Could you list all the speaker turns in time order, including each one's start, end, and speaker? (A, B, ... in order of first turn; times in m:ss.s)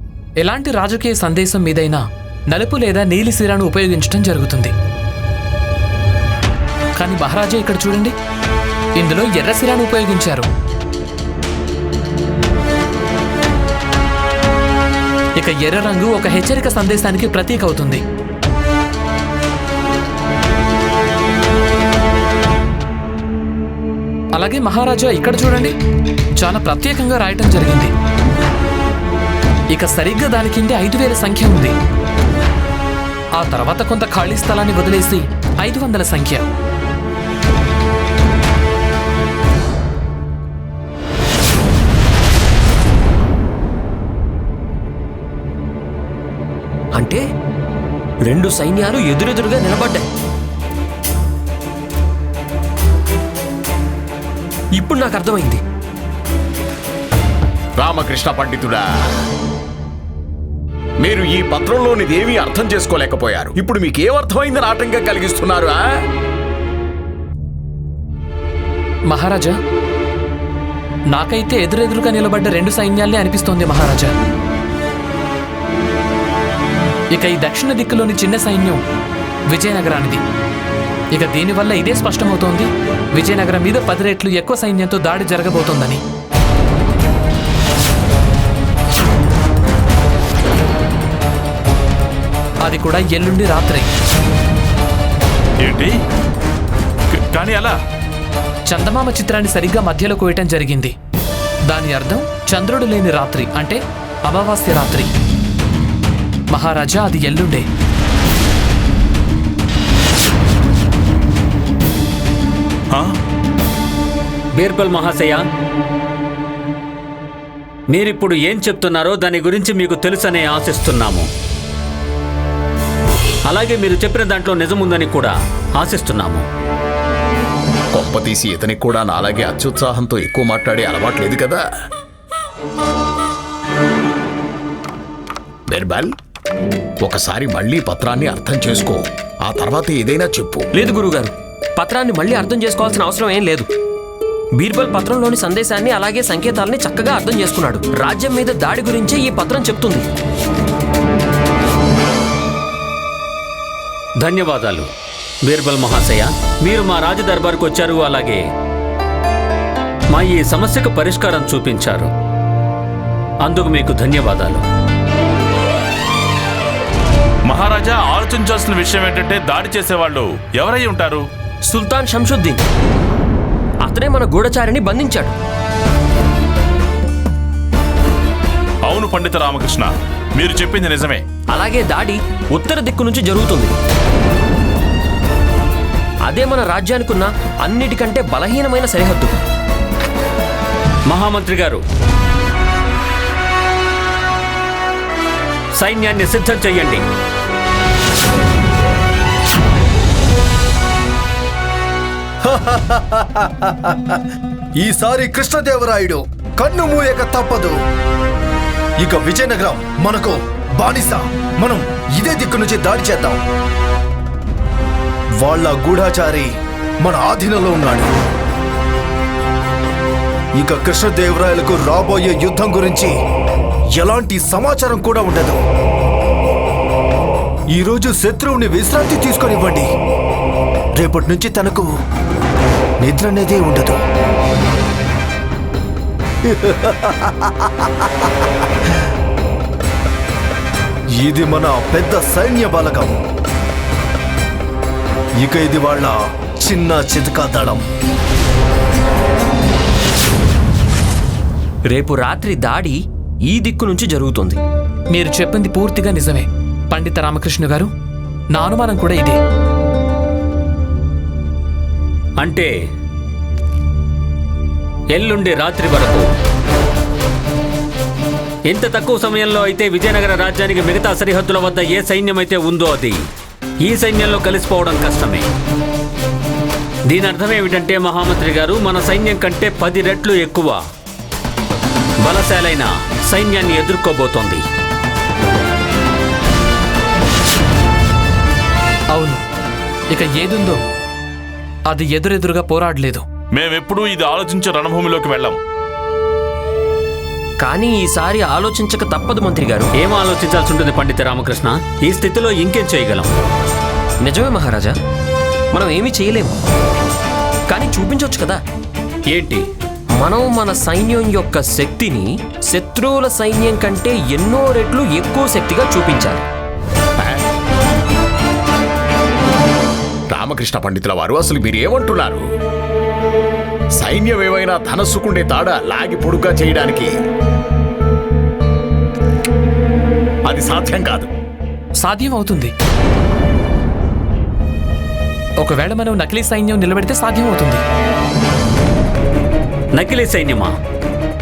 0:00.4-0:04.7 A
0:07.0-0:08.1 A
0:09.0-0:10.5 A
0:15.4-0:18.0 A
0:24.4-0:25.7 A
0:26.4-0:27.9 A
0:29.7-0:31.7 A
0:33.4-0:36.4 A
0:46.9-0:47.2 B
0:48.2-0:50.1 B
0:54.8-0:55.6 B
0:57.8-0:58.9 C
1:01.0-1:05.9 C
1:09.1-1:09.6 A
1:11.1-1:14.1 A
1:17.1-1:18.8 A
1:19.5-1:20.2 A
1:21.2-1:26.0 A
1:32.7-1:33.9 A
1:35.6-1:35.9 D
1:37.1-1:37.8 D
1:38.7-1:40.9 A
1:41.7-1:45.1 A
1:46.5-1:47.7 A
1:52.9-1:53.2 D
1:54.6-1:55.4 E
1:57.9-2:01.3 E
2:03.5-2:06.4 E
2:07.9-2:11.6 C
2:15.7-2:16.1 C
2:17.0-2:20.7 C
2:20.8-2:23.7 B
2:24.6-2:30.1 B
2:34.2-2:34.9 E
2:35.4-2:38.4 E
2:40.1-2:42.1 E
2:43.4-2:44.6 E
2:47.5-2:51.2 D
2:51.6-2:52.6 B
2:53.8-2:55.3 B
2:58.9-3:01.2 D
3:01.5-3:03.7 B
3:06.2-3:09.4 B
3:11.1-3:11.8 E
3:15.8-3:17.0 E
3:22.4-3:24.2 F
3:24.8-3:27.8 F
3:29.0-3:33.4 F
3:35.4-3:36.5 F
3:37.0-3:38.1 F
3:40.6-3:43.1 F
3:44.0-3:45.6 F
3:47.7-3:49.9 F
3:51.0-3:51.9 F
3:53.0-3:54.0 F
3:56.4-3:58.3 F
4:01.2-4:03.2 F
4:05.4-4:07.8 F
4:11.9-4:14.6 B
4:15.1-4:17.9 A
4:18.5-4:19.4 A
4:22.4-4:22.7 E
4:25.1-4:26.3 E
4:28.7-4:33.3 E
4:33.8-4:35.5 E
4:37.1-4:40.8 E
4:42.2-4:44.6 E
4:49.1-4:49.4 A
4:50.1-4:50.8 A
4:51.9-4:53.2 A
4:53.5-4:55.6 D
4:57.6-4:59.9 B
5:00.0-5:03.3 E
5:04.2-5:05.0 B
5:05.7-5:06.5 B
5:07.7-5:08.6 B
5:09.3-5:09.7 E
5:10.1-5:16.4 B
5:17.2-5:17.4 C
5:20.3-5:22.4 C
5:24.0-5:27.1 C
5:30.5-5:31.3 C
5:32.0-5:32.7 A
5:35.6-5:37.8 A
5:40.0-5:40.8 E